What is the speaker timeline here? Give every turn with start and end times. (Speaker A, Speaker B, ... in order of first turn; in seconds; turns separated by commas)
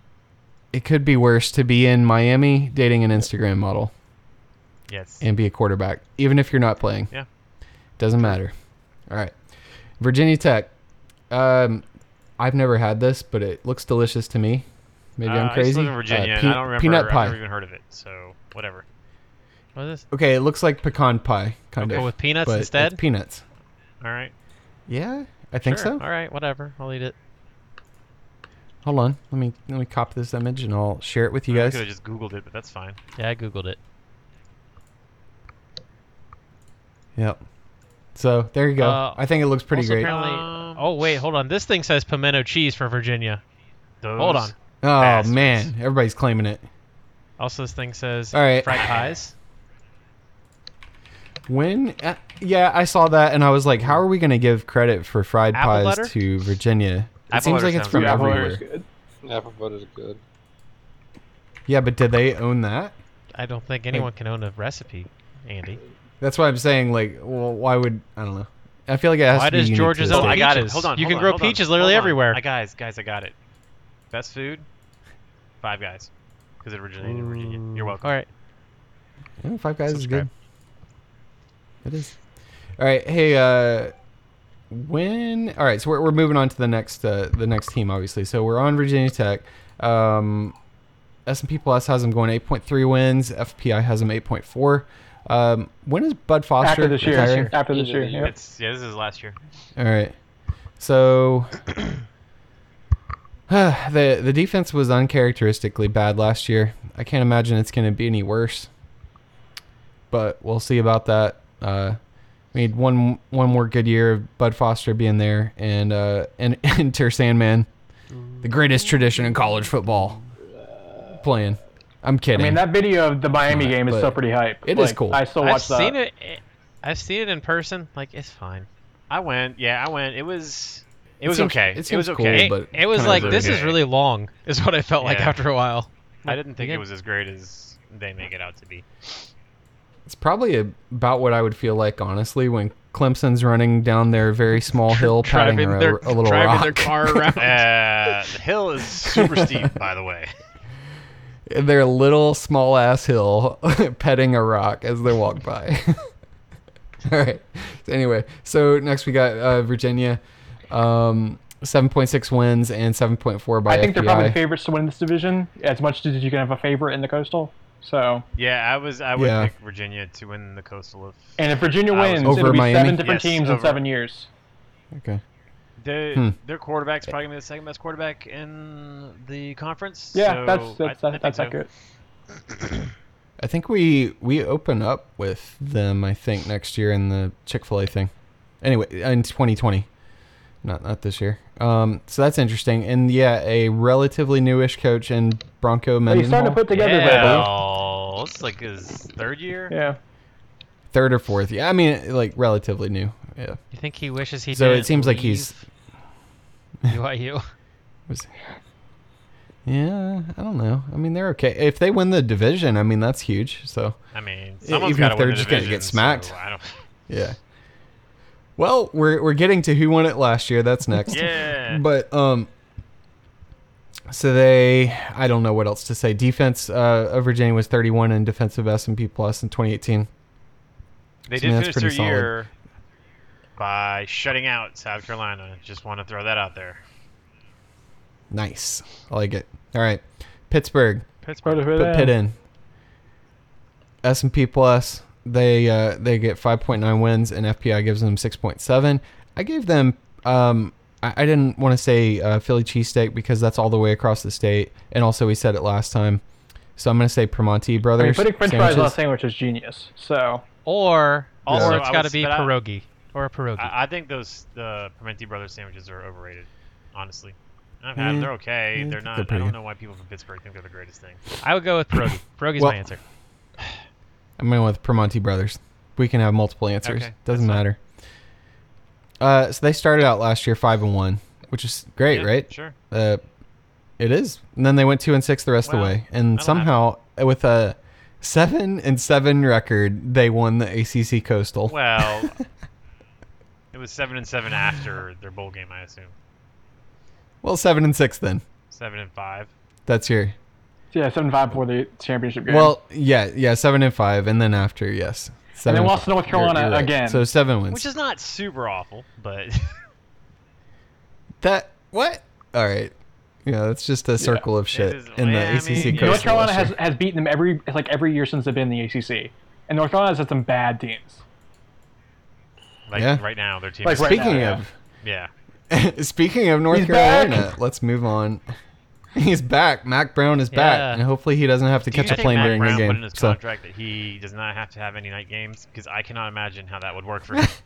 Speaker A: 0.7-3.9, Speaker B: 4.9-5.3, Speaker A: 5.2-7.1, Speaker A: 8.0-8.5, Speaker A: 9.1-9.3, Speaker A: 10.0-10.7, Speaker A: 11.3-11.8, Speaker A: 12.4-14.7, Speaker A: 15.2-17.4, Speaker B: 15.2-18.9, Speaker C: 19.8-20.1, Speaker A: 20.1-23.4, Speaker C: 21.8-23.0, Speaker B: 24.0-24.3, Speaker A: 24.9-26.0, Speaker C: 25.6-27.1, Speaker A: 28.8-31.8, Speaker B: 31.5-33.0, Speaker C: 33.2-33.8, Speaker A: 37.2-37.4, Speaker A: 38.1-40.1, Speaker C: 38.8-43.4, Speaker B: 40.0-40.9, Speaker B: 44.0-45.7, Speaker C: 44.2-44.5, Speaker A: 44.8-46.6, Speaker C: 47.4-49.3, Speaker A: 48.3-49.0, Speaker B: 48.8-49.1, Speaker A: 51.5-58.6, Speaker C: 55.5-56.1, Speaker B: 57.3-58.4, Speaker D: 57.9-58.9, Speaker E: 59.2-60.2, Speaker A: 61.7-62.9, Speaker C: 63.3-65.8, Speaker A: 66.2-70.5, Speaker C: 69.3-72.4, Speaker B: 70.1-73.3, Speaker B: 74.1-74.7, Speaker B: 75.6-76.1, Speaker B: 76.6-78.2, Speaker A: 77.3-77.9, Speaker C: 78.0-78.3, Speaker A: 79.4-80.3, Speaker C: 79.9-80.2, Speaker A: 81.8-82.2, Speaker A: 82.8-83.9, Speaker A: 84.7-90.5, Speaker A: 91.3-97.5, Speaker D: 96.6-98.3, Speaker E: 97.6-98.3, Speaker B: 98.2-99.4, Speaker A: 99.8-100.2, Speaker A: 100.8-101.6, Speaker A: 103.5-108.7, Speaker A: 110.1-112.0, Speaker A: 112.5-117.7, Speaker A: 118.4-120.2, Speaker E: 120.7-121.2, Speaker A: 121.2-122.7, Speaker D: 122.3-126.0, Speaker A: 123.5-125.3, Speaker C: 125.4-128.7, Speaker B: 129.1-133.8, Speaker A: 131.2-133.6, Speaker C: 132.3-136.8, Speaker B: 135.0-135.4, Speaker B: 136.3-138.8, Speaker A: 140.1-147.4, Speaker C: 144.9-147.7, Speaker B: 147.4-150.3, Speaker A: 149.1-149.6, Speaker A: 151.5-156.1, Speaker A: 157.1-164.4, Speaker D: 163.7-168.2, Speaker B: 168.4-173.8, Speaker A: 169.2-169.5, Speaker D: 171.4-174.3, Speaker A: 172.2-173.1, Speaker A: 174.9-175.2, Speaker B: 175.8-181.6, Speaker D: 180.1-181.7, Speaker A: 183.4-188.1, Speaker A: 188.6-189.9, Speaker A: 190.6-197.5, Speaker D: 196.1-197.5, Speaker B: 196.7-199.7, Speaker D: 199.7-200.0, Speaker A: 200.9-203.6, Speaker C: 203.7-205.6, Speaker A: 204.5-205.6, Speaker C: 206.9-207.5, Speaker A: 209.7-214.0, Speaker B: 214.1-216.8, Speaker A: 214.6-216.3, Speaker A: 217.1-217.4, Speaker A: 218.6-222.5, Speaker B: 221.1-221.8, Speaker A: 224.1-230.1, Speaker B: 231.3-232.5, Speaker A: 231.3-232.3, Speaker B: 233.6-236.8, Speaker A: 238.3-241.0, Speaker B: 241.2-241.7, Speaker D: 241.4-242.1, Speaker A: 241.6-242.3, Speaker A: 244.0-256.2, Speaker A: 256.8-259.0, Speaker D: 257.9-260.4, Speaker C: 260.6-263.7, Speaker B: 261.4-262.6, Speaker A: 261.5-261.8, Speaker B: 263.6-271.2, Speaker A: 268.0-269.6, Speaker C: 271.4-273.0, Speaker A: 274.4-277.8, Speaker B: 276.8-277.6, Speaker A: 279.2-283.2, Speaker B: 282.1-282.8, Speaker A: 284.0-292.4, Speaker B: 285.6-286.8, Speaker B: 291.7-292.3, Speaker B: 293.7-296.1, Speaker A: 297.4-298.4, Speaker B: 298.7-299.5, Speaker A: 299.9-300.4, Speaker D: 300.9-302.8, Speaker A: 302.5-307.9, Speaker D: 305.7-307.2, Speaker B: 307.7-309.8, Speaker A: 311.4-312.9, Speaker A: 313.4-316.8, Speaker D: 314.2-314.5, Speaker B: 314.7-316.4, Speaker D: 315.8-321.2, Speaker B: 322.9-325.3, Speaker A: 322.9-323.2, Speaker D: 323.8-324.6, Speaker A: 323.9-324.7, Speaker A: 325.7-328.4, Speaker D: 326.7-327.5, Speaker A: 329.1-333.4, Speaker C: 330.5-331.0, Speaker B: 331.9-337.5, Speaker C: 332.1-332.8